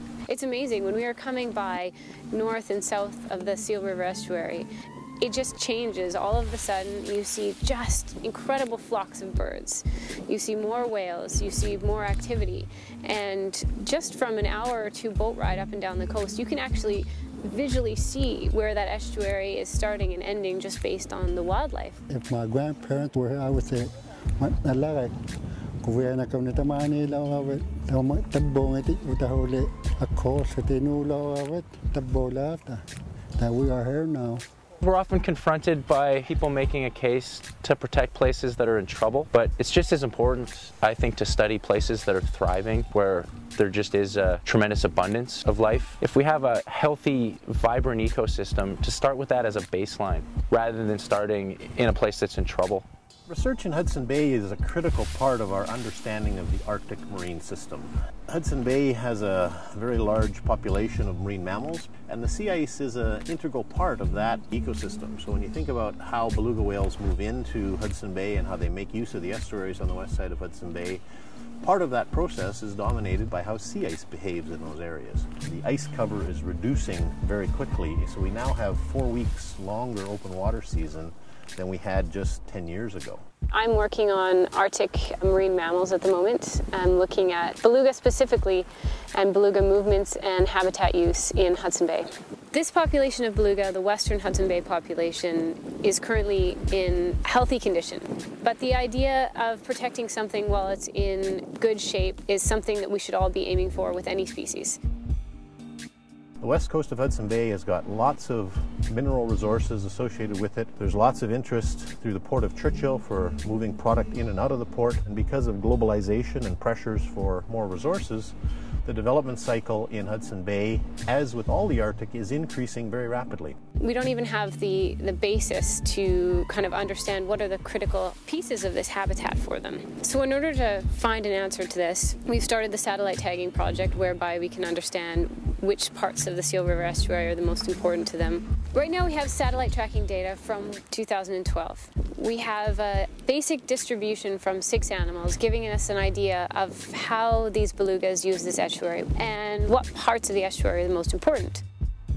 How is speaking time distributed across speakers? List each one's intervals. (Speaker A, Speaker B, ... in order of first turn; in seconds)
Speaker A: 0.3-4.7, 5.2-22.0, 83.5-104.8, 123.8-151.6
Speaker B: 22.1-25.1, 25.8-32.8, 33.4-34.4
Speaker C: 34.8-52.9
Speaker D: 53.3-71.0, 71.6-83.2, 106.4-123.6